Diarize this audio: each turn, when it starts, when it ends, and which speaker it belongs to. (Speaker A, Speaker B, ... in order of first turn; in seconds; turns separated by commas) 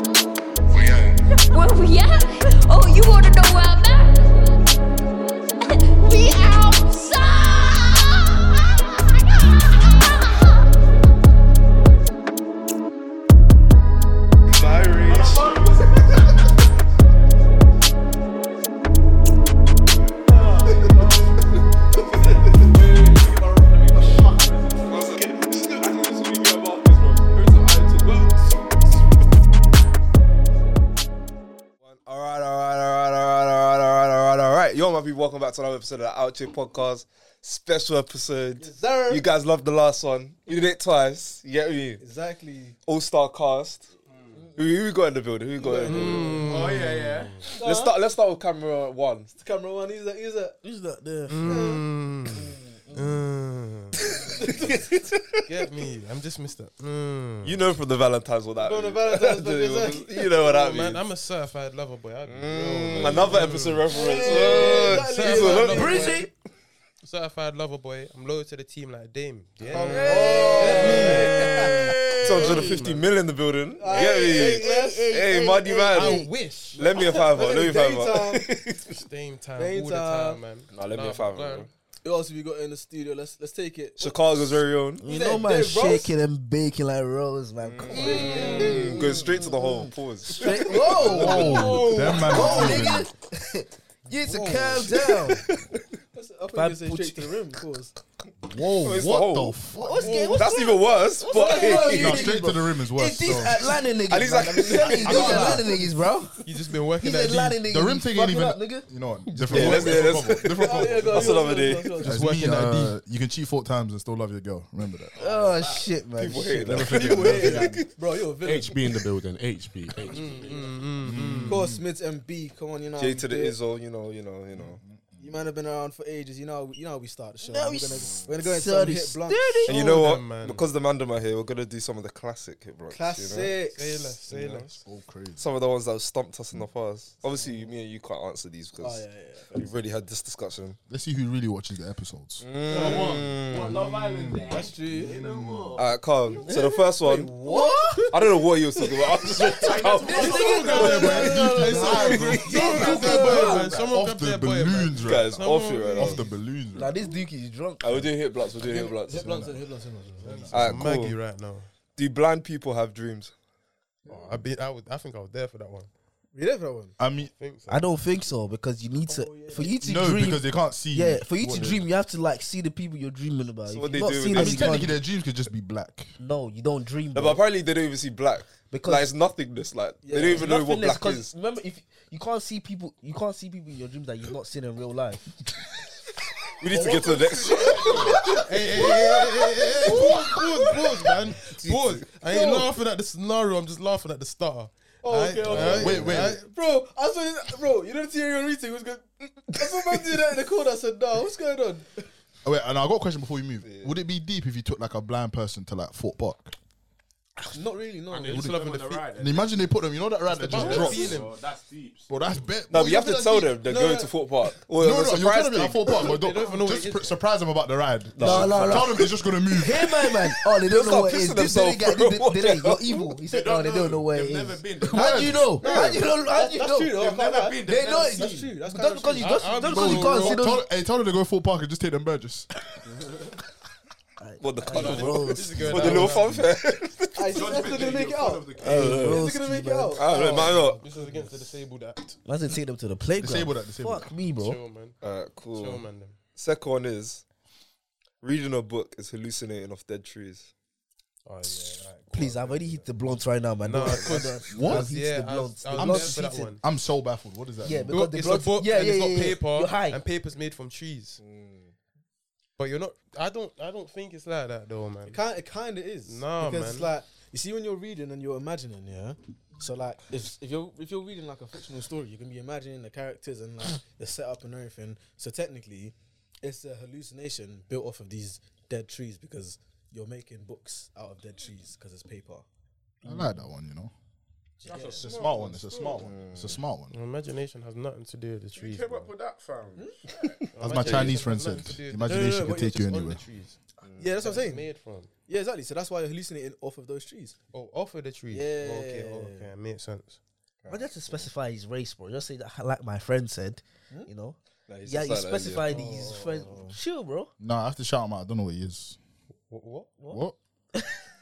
Speaker A: 0.8-4.7, Speaker A: 5.6-8.5, Speaker A: 9.7-10.5, Speaker B: 14.5-15.7, Speaker C: 15.0-16.4, Speaker C: 20.2-21.5, Speaker C: 22.0-25.2, Speaker B: 22.1-22.7, Speaker B: 24.9-28.6, Speaker B: 31.8-42.0, Speaker D: 38.6-39.2, Speaker D: 42.0-42.8, Speaker B: 42.9-43.9, Speaker B: 44.5-46.2, Speaker D: 45.6-46.5, Speaker C: 45.8-47.5, Speaker E: 45.9-47.4, Speaker B: 47.5-49.3, Speaker D: 47.6-48.0, Speaker D: 49.4-50.6, Speaker F: 50.6-51.7, Speaker E: 51.3-54.0, Speaker D: 51.4-51.8, Speaker F: 52.9-53.1, Speaker B: 54.2-55.4, Speaker E: 55.5-57.6, Speaker B: 57.4-61.0, Speaker D: 58.6-60.1, Speaker E: 60.3-66.1, Speaker B: 62.3-66.1, Speaker D: 63.9-66.2, Speaker F: 64.0-66.3, Speaker E: 67.0-73.1, Speaker D: 69.7-72.2, Speaker F: 69.7-72.7, Speaker B: 70.2-71.6, Speaker B: 72.2-78.9, Speaker D: 73.8-75.2, Speaker F: 73.9-76.3, Speaker E: 75.9-76.8, Speaker D: 76.7-78.4, Speaker E: 78.9-81.7, Speaker D: 79.6-80.4, Speaker B: 80.7-81.7, Speaker D: 82.0-86.1, Speaker B: 84.0-85.0, Speaker F: 85.0-95.4, Speaker B: 87.6-92.8, Speaker D: 87.9-89.2, Speaker D: 90.4-92.9, Speaker G: 91.0-93.1, Speaker D: 94.1-95.4, Speaker B: 95.0-95.8, Speaker D: 96.1-97.9, Speaker F: 96.5-97.5, Speaker G: 98.4-100.2, Speaker B: 98.8-99.6, Speaker F: 99.7-106.3, Speaker D: 100.0-100.5, Speaker B: 100.2-102.2, Speaker D: 101.2-102.3, Speaker G: 101.9-103.7, Speaker B: 104.0-105.6, Speaker D: 104.5-105.8, Speaker G: 105.0-105.6, Speaker E: 105.1-105.6, Speaker E: 106.4-107.6, Speaker F: 107.0-108.9, Speaker G: 107.7-111.4, Speaker B: 109.5-112.0, Speaker F: 109.6-109.9, Speaker D: 109.7-112.2, Speaker E: 112.0-113.0, Speaker G: 112.0-115.1, Speaker C: 115.2-116.0, Speaker F: 115.2-116.8, Speaker B: 116.1-117.9, Speaker G: 116.6-117.8, Speaker D: 116.8-119.0, Speaker C: 118.4-120.8, Speaker E: 120.1-121.8, Speaker G: 121.0-121.8, Speaker D: 121.5-123.5, Speaker B: 123.0-124.8, Speaker G: 124.6-125.3, Speaker D: 125.2-129.7, Speaker F: 127.4-129.8, Speaker B: 129.6-133.6, Speaker E: 129.7-130.7, Speaker D: 132.9-134.2, Speaker E: 133.7-134.8, Speaker B: 134.3-134.8, Speaker G: 134.8-135.4, Speaker B: 135.4-140.8, Speaker D: 138.8-139.5, Speaker G: 140.9-142.4, Speaker B: 142.4-143.8, Speaker C: 142.7-146.6, Speaker G: 144.0-145.8, Speaker D: 144.5-145.2, Speaker B: 145.8-147.3, Speaker D: 146.4-149.5, Speaker F: 147.4-148.1, Speaker B: 148.1-152.8, Speaker C: 149.3-151.2, Speaker F: 149.9-152.3, Speaker E: 150.2-156.3, Speaker D: 150.3-153.7, Speaker G: 150.7-156.9, Speaker C: 151.8-153.9, Speaker F: 152.9-153.6, Speaker B: 155.0-156.3, Speaker F: 156.7-158.1, Speaker B: 157.8-159.3, Speaker D: 158.5-160.5, Speaker G: 159.2-159.6, Speaker G: 160.2-161.1, Speaker E: 160.2-161.7, Speaker B: 160.5-161.2, Speaker B: 161.9-163.3, Speaker G: 164.1-164.4, Speaker E: 164.1-165.9, Speaker D: 166.3-166.9, Speaker G: 167.0-167.3, Speaker E: 167.3-167.8, Speaker F: 167.7-175.0, Speaker D: 169.0-169.8, Speaker G: 169.8-171.8, Speaker B: 173.7-174.9, Speaker G: 174.3-176.2, Speaker F: 176.2-177.4, Speaker B: 177.1-181.3, Speaker F: 178.7-179.2, Speaker D: 180.0-180.5, Speaker F: 180.2-185.3, Speaker B: 186.6-188.2, Speaker D: 186.7-189.0, Speaker C: 187.4-188.2, Speaker E: 188.2-196.4, Speaker D: 189.8-190.9, Speaker D: 192.3-192.7, Speaker D: 195.0-202.1, Speaker C: 195.2-196.1, Speaker G: 195.5-196.4, Speaker G: 202.4-206.5, Speaker B: 203.6-203.9, Speaker D: 207.5-208.5, Speaker C: 208.1-209.7, Speaker E: 208.3-209.1, Speaker G: 209.2-211.2, Speaker C: 210.4-212.2, Speaker E: 210.4-211.3, Speaker G: 212.1-213.5, Speaker B: 212.7-216.1, Speaker D: 213.6-214.1, Speaker G: 214.8-220.0, Speaker E: 215.9-217.2, Speaker B: 218.1-219.1, Speaker F: 218.2-226.9, Speaker B: 220.2-223.1, Speaker C: 223.2-225.6, Speaker G: 224.9-225.4, Speaker D: 225.6-229.9, Speaker B: 225.6-226.0, Speaker C: 226.9-228.6, Speaker F: 227.7-230.6, Speaker E: 229.2-230.4, Speaker G: 229.7-232.5, Speaker F: 234.2-236.0, Speaker B: 234.4-237.7, Speaker E: 234.7-236.5, Speaker D: 237.1-241.5, Speaker C: 237.3-239.2, Speaker F: 238.5-240.1, Speaker B: 238.7-239.2, Speaker B: 240.0-240.8, Speaker E: 240.1-242.2, Speaker F: 242.2-244.6, Speaker G: 243.2-244.1, Speaker E: 244.4-244.9, Speaker B: 245.0-245.8, Speaker E: 245.5-246.2, Speaker B: 246.3-247.2, Speaker B: 248.2-250.5, Speaker E: 251.2-252.9, Speaker F: 252.1-256.5, Speaker E: 253.6-256.6, Speaker G: 254.5-254.9, Speaker G: 255.8-258.0, Speaker F: 257.6-260.0, Speaker E: 257.9-261.2, Speaker B: 261.2-261.7, Speaker E: 262.6-265.2, Speaker D: 265.1-282.4, Speaker E: 266.1-266.9, Speaker D: 283.0-283.4, Speaker G: 283.0-283.9, Speaker D: 284.6-285.1, Speaker C: 284.6-286.1, Speaker G: 284.9-286.9, Speaker B: 286.0-286.6, Speaker E: 286.9-289.1, Speaker C: 288.5-290.4, Speaker E: 290.5-293.6, Speaker G: 290.6-293.2, Speaker B: 290.8-291.1, Speaker D: 292.1-292.8, Speaker B: 293.8-294.2, Speaker D: 294.0-294.6, Speaker E: 294.2-295.1, Speaker D: 295.3-297.4, Speaker E: 297.5-300.2, Speaker D: 298.3-299.5, Speaker B: 300.6-301.2, Speaker F: 300.7-307.3, Speaker B: 304.7-305.8, Speaker D: 305.6-306.8, Speaker G: 307.4-309.0, Speaker E: 309.5-309.9, Speaker G: 310.1-310.4